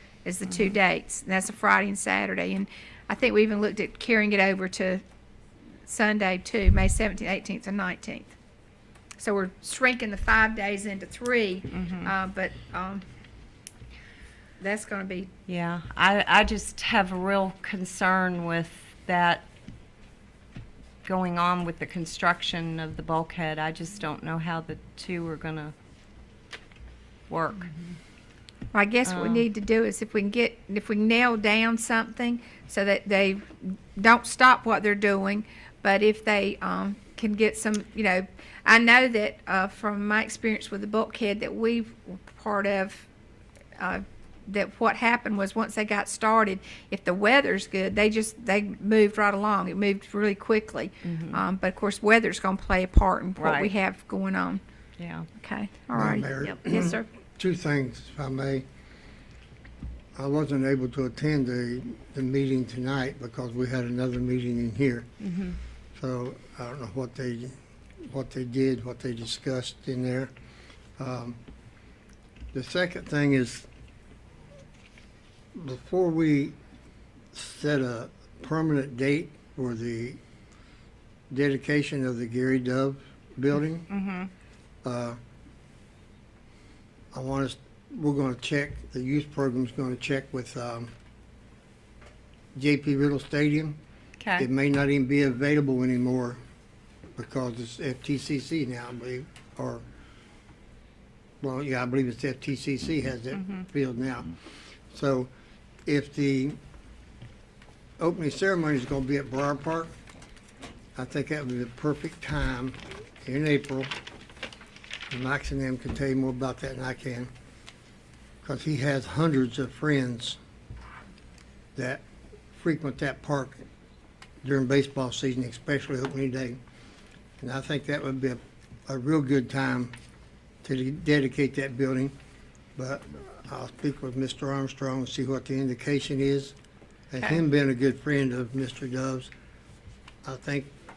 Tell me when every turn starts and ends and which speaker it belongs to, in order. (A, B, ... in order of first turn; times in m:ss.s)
0:00.2-0:05.0 A
0:05.9-0:08.3 A
0:09.2-0:13.0 A
0:11.7-0:12.1 B
0:14.6-0:15.3 A
0:15.5-0:19.5 B
0:21.0-0:25.7 B
0:27.3-0:27.7 B
0:28.7-0:43.1 A
0:29.0-0:29.4 B
0:43.8-0:54.6 A
0:51.0-0:51.4 B
0:53.4-0:53.7 B
0:55.0-0:55.3 B
0:55.4-0:57.1 A
0:55.9-0:58.6 C
1:00.2-1:05.1 C
1:05.2-1:05.5 B
1:06.0-1:07.5 C
1:08.1-1:10.3 C
1:11.0-1:11.4 C
1:12.5-1:13.6 C
1:15.5-1:16.5 C
1:17.3-1:20.2 C
1:21.3-1:23.9 C
1:23.9-1:24.3 B
1:24.8-1:25.2 C
1:27.1-1:30.9 C
1:32.6-1:33.8 C
1:34.2-1:34.5 B
1:34.4-1:36.4 C
1:37.2-1:39.8 C
1:41.4-1:44.3 C
1:44.9-1:45.3 C
1:45.8-1:46.6 C
1:48.0-1:49.9 C
1:51.0-1:53.9 C
1:55.1-1:57.3 C
1:58.4-2:00.4 C
2:01.8-2:03.6 C
2:04.4-2:06.6 C
2:07.4-2:09.9 C
2:10.6-2:12.1 C
2:12.8-2:16.5 C
2:17.1-2:19.3 C
2:20.2-2:20.7 C